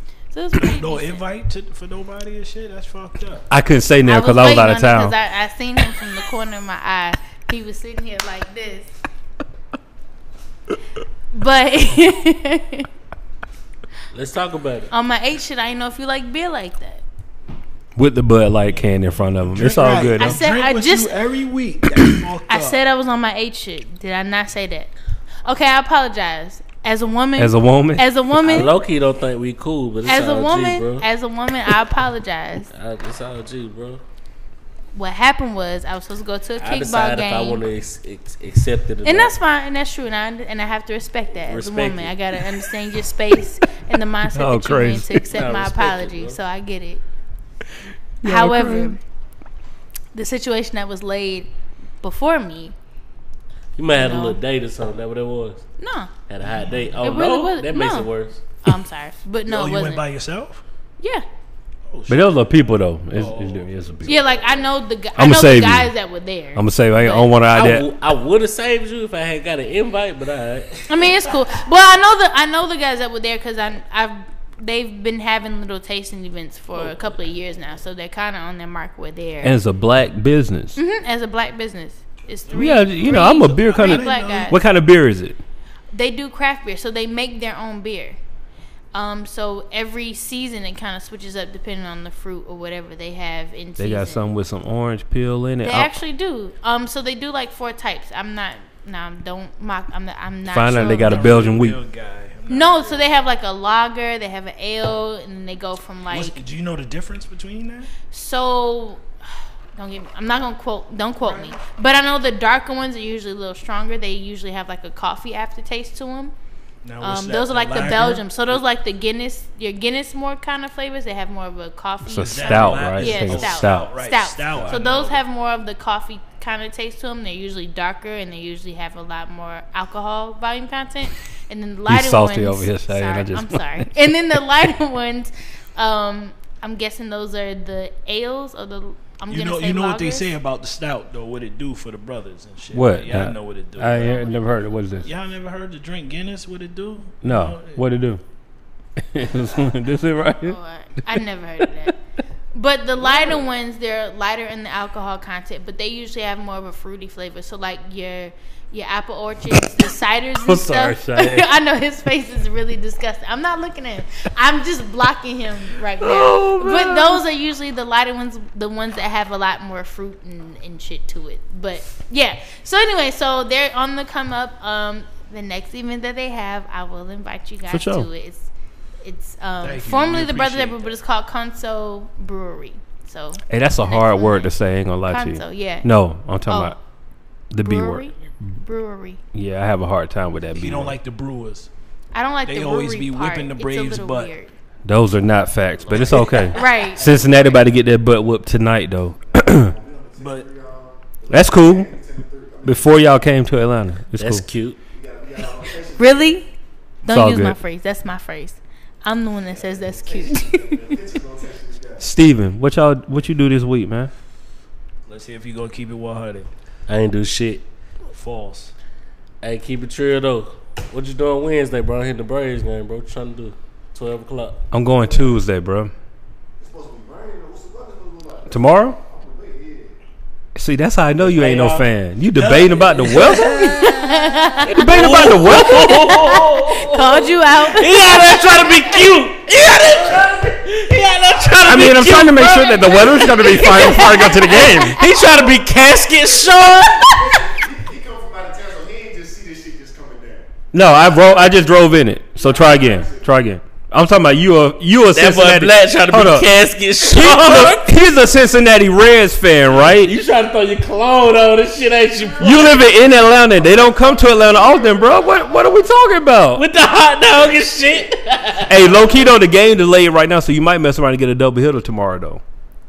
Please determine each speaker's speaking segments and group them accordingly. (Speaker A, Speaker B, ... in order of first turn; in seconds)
Speaker A: 0.3-1.2, 4.0-8.9, 11.3-12.9, 14.9-17.0, 20.1-21.2, 22.5-24.9, 25.4-28.7, 30.1-32.7, 34.9-37.6, 39.0-47.0, 48.2-49.0, 50.1-51.5, 52.0-52.7, 53.9-54.4, 55.8-56.1, 57.0-58.1, 58.6-60.0, 61.0-61.2, 64.0-67.3, 70.9-79.5, 80.8-84.6, 85.9-88.2, 88.9-94.3, 95.6-101.5, 102.5-106.4, 108.1-109.0, 109.8-116.3, 117.0-140.3, 150.4-151.9, 152.5-178.5, 179.0-184.5, 185.1-185.9, 186.5-186.8, 187.6-189.2, 192.1-194.5, 196.5-197.0, 206.0-206.4, 207.0-211.0, 233.5-239.0, 241.9-245.5
Speaker B: 0.6-3.4, 18.7-22.8, 56.4-56.9, 59.5-60.6, 61.9-62.5, 63.1-64.6, 82.4-84.6, 100.9-103.2, 106.1-107.9, 111.2-111.5, 116.8-118.6, 122.2-125.2, 139.3-144.3, 145.0-147.8, 153.0-153.4, 179.6-181.0, 190.5-191.7, 192.4-194.3, 195.9-196.4, 200.2-200.5, 215.1-216.5, 218.1-218.7, 232.4-234.6, 236.3-236.8
Speaker C: 3.5-5.2, 17.9-20.4, 27.4-28.7, 44.3-45.2, 48.2-49.0, 62.1-64.2, 65.2-65.9, 66.5-67.9, 79.4-80.8, 82.5-85.4, 93.8-95.9, 100.5-101.8, 122.1-123.9, 131.9-133.9, 142.7-145.1, 147.2-148.2, 149.0-150.6, 160.4-161.5, 166.0-167.2, 177.7-178.1, 183.5-186.7, 187.5-188.1, 189.3-190.9, 194.8-199.7, 201.3-201.9, 202.6-204.4, 207.1-207.6, 212.0-214.1, 224.7-225.9, 228.5-229.0, 230.5-233.8, 234.7-236.0, 241.6-245.0, 250.7-256.5, 257.0-260.1, 262.4-266.6, 268.7-272.4
Speaker D: 14.1-14.9, 28.4-31.0, 32.7-34.0, 36.6-39.3, 41.5-42.1, 45.3-46.4, 53.8-55.6, 56.3-58.4, 67.5-70.8, 204.2-204.8, 216.9-217.6, 219.4-224.6, 231.2-231.8, 233.2-233.7, 234.8-247.5, 255.1-257.9, 259.7-262.8, 266.6-269.0
Speaker E: 195.9-197.6, 199.3-203.0, 204.9-206.3, 209.5-212.1, 225.1-225.3, 226.6-230.0, 240.0-240.5, 241.4-241.7, 246.8-250.5, 252.4-253.3, 263.5-265.8